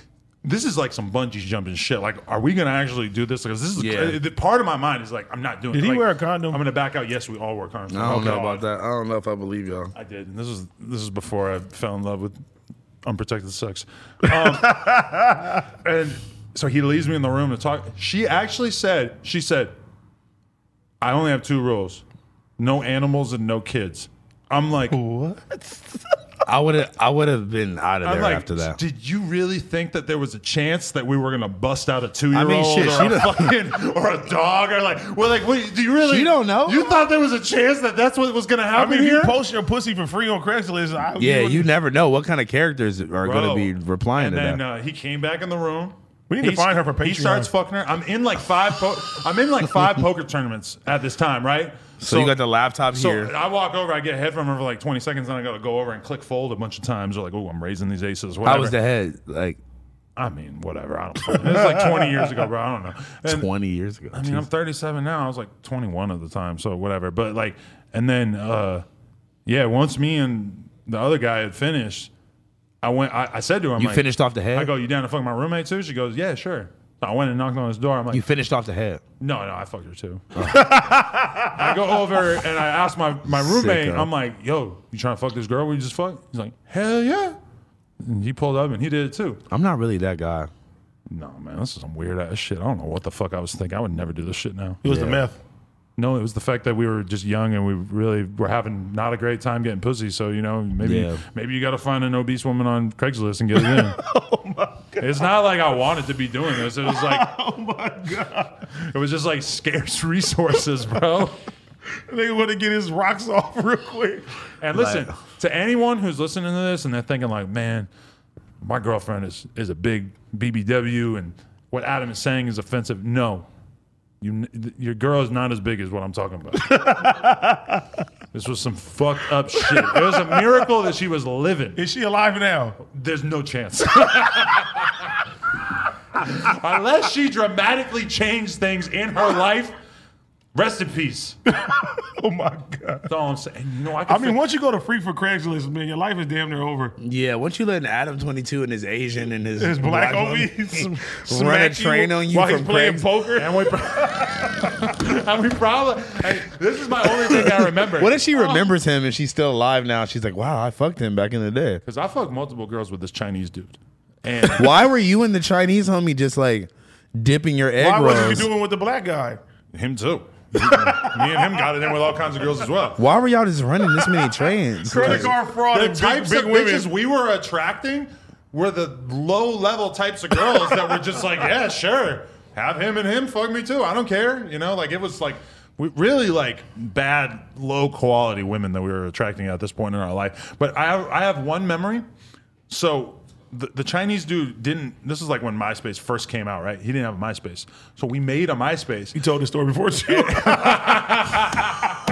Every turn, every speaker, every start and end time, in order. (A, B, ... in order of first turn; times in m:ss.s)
0:00.4-0:08.6 A
0:03.8-0:04.2 B
0:05.7-0:06.6 C
0:07.9-0:09.9 B
0:09.9-0:12.3 A
0:13.0-0:19.7 A
0:21.0-0:22.0 A
0:22.6-0:25.0 A
0:24.9-0:26.0 C
0:26.4-0:28.8 B
0:28.0-0:39.4 A
0:32.3-0:33.5 B
0:36.0-0:36.9 B
0:38.7-0:41.7 C
0:41.2-0:44.6 B
0:43.2-0:52.4 A
0:46.3-0:47.5 C
0:52.0-0:53.3 B
0:52.9-0:58.8 A
0:58.4-0:59.6 B
1:00.2-1:03.5 A
1:03.2-1:04.4 B
1:04.1-1:08.8 A
1:09.4-1:12.1 A
1:12.8-1:18.2 A
1:13.8-1:14.7 B
1:18.1-1:19.0 B
1:19.2-1:20.3 A
1:20.4-1:20.7 B
1:20.5-1:21.5 C
1:21.5-1:27.4 A
1:23.2-1:24.1 B
1:28.0-1:29.4 A
1:29.5-1:30.5 B
1:31.1-1:34.8 A
1:34.8-1:35.4 C
1:34.8-1:35.2 B
1:36.0-1:44.0 A
1:40.8-1:41.2 B
1:43.6-1:45.3 C
1:45.0-1:47.3 A
1:46.7-1:48.7 C
1:48.8-1:51.4 A
1:51.9-1:54.2 C
1:54.6-1:57.9 A
1:54.7-1:55.1 B
1:58.6-2:03.5 A
2:04.2-2:06.7 A
2:06.6-2:07.8 C
2:08.3-2:11.8 A
2:09.7-2:10.4 C
2:11.8-2:12.8 C
2:12.9-2:15.2 A
2:16.2-2:19.7 A
2:20.5-2:21.4 A
2:21.5-2:23.1 C
2:23.1-2:24.4 A
2:24.1-2:27.0 C
2:27.0-2:33.1 B
2:29.6-2:33.7 C
2:33.3-2:38.7 A
2:37.3-2:41.8 B
2:41.8-2:44.7 A
2:44.5-2:48.5 B
2:47.8-2:49.4 C
2:49.7-2:53.0 A
2:50.6-2:51.5 C
2:53.0-2:55.3 B
2:54.8-2:56.9 C
2:54.9-3:12.0 A
3:12.7-3:19.2 A
3:19.1-3:22.0 C
3:20.0-3:21.9 A